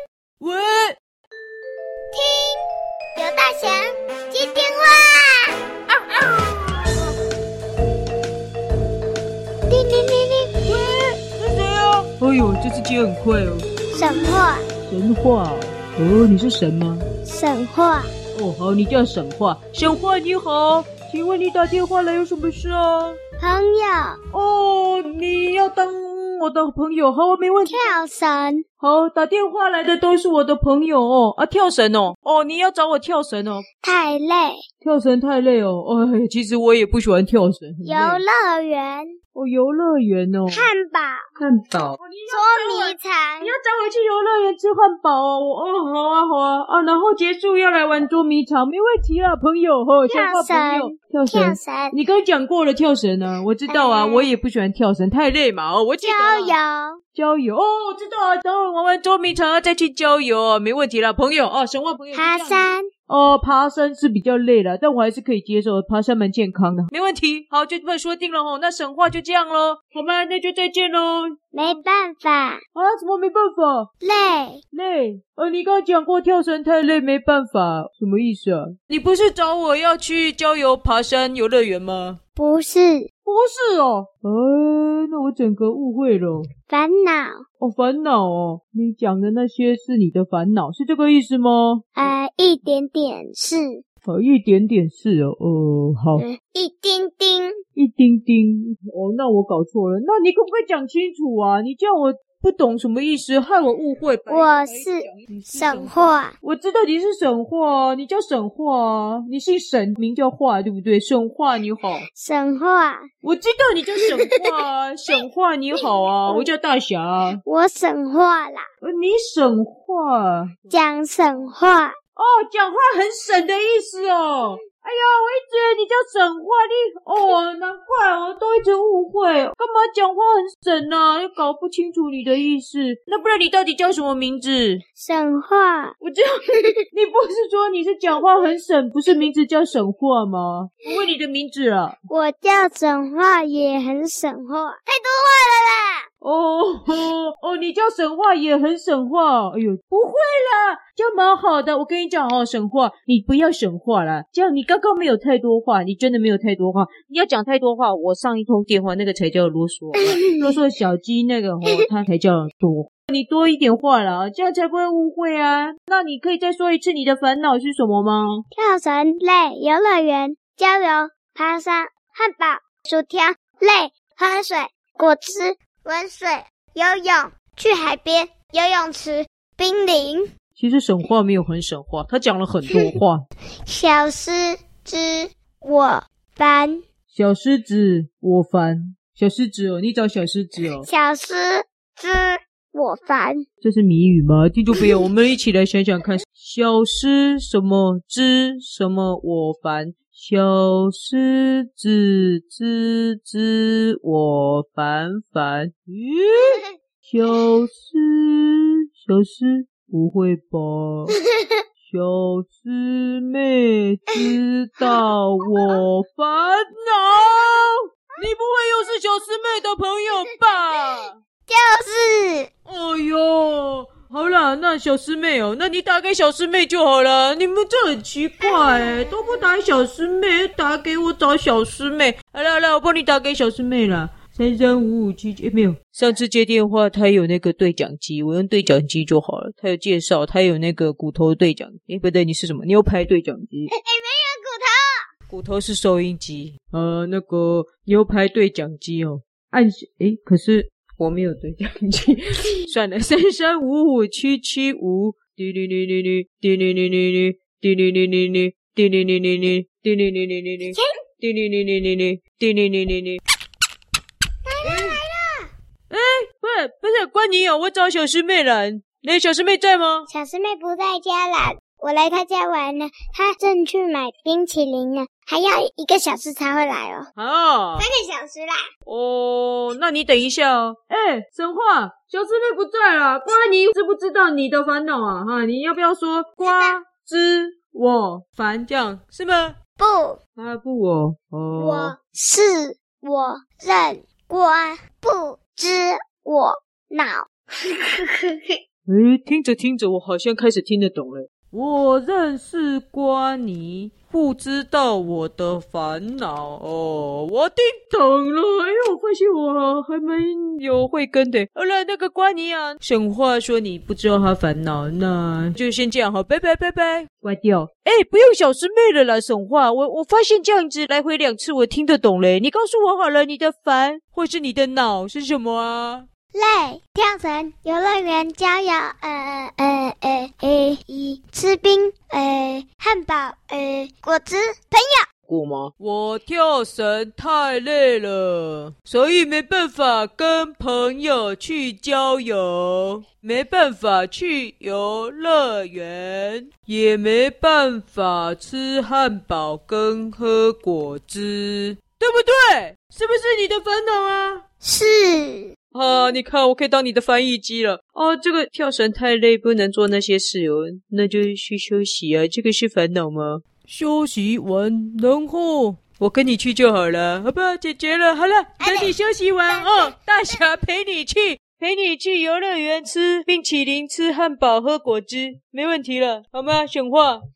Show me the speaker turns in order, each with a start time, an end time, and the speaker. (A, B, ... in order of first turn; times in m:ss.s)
0:00.4-0:01.0 A
0:02.1-0:02.6 B
0:03.2-0:05.6 B
0:05.9-0:07.2 A
0:09.7-0:10.5 B
0:10.6-0:13.7 A
0:13.9-0:14.6 B
0:14.8-0:17.0 A
0:17.2-0:18.1 B
0:18.3-0:23.2 A
0:23.4-0:24.2 B
0:24.3-0:28.0 A
0:27.7-0:28.6 B
0:28.8-0:33.6 A
0:33.8-0:34.6 B
0:34.8-0:38.2 A
0:37.8-0:39.2 B
0:39.3-0:40.7 A
0:40.5-0:41.2 B
0:41.4-0:56.6 A
0:42.3-0:43.5 B
0:50.1-0:51.9 B
0:53.7-0:54.3 B
0:56.0-0:57.0 B
0:57.1-1:11.4 A
1:02.1-1:02.9 B
1:11.5-1:12.6 B
1:12.7-1:13.9 A
1:14.0-1:14.6 B
1:14.7-1:22.2 A
1:22.4-1:23.0 B
1:23.2-1:26.5 A
1:26.7-1:27.4 B
1:27.6-1:32.1 A
1:32.0-1:33.8 B
1:34.0-1:36.2 A
1:36.2-1:37.5 B
1:37.8-1:52.0 A
1:44.3-1:46.4 B
1:52.2-1:53.0 B
1:53.2-1:57.4 A
1:55.8-1:56.5 B
1:57.4-1:58.6 B
1:58.8-2:00.6 A
2:00.7-2:02.0 B
2:02.2-2:14.8 A
2:15.0-2:15.9 B
2:16.0-2:22.0 A
2:22.1-2:26.0 B
2:26.2-2:48.4 A
2:39.9-2:40.5 B
2:48.5-3:00.3 B
3:00.6-3:03.2 A
3:03.7-3:06.8 B
3:07.1-3:10.9 A
3:10.8-3:13.4 B
3:13.6-3:26.6 A
3:27.1-3:31.1 A
3:31.8-3:41.2 A
3:40.0-3:42.5 B
3:42.6-4:03.7 A
3:48.4-3:49.2 B
4:03.7-4:05.0 B
4:05.3-4:23.2 A
4:24.5-4:25.5 B
4:24.6-4:25.0 A
4:25.9-4:30.1 A
4:30.1-4:37.1 B
4:37.2-4:37.9 A
4:37.8-4:38.6 B
4:38.8-4:49.6 A
4:46.4-4:46.8 B
4:49.8-4:50.2 B
4:50.4-4:52.0 A
4:51.6-4:58.4 B
4:58.9-5:26.1 A
5:26.3-5:35.0 B
5:35.3-5:54.4 A
5:54.6-5:55.5 B
5:55.7-6:17.2 A
6:08.6-6:08.9 B
6:09.5-6:09.9 B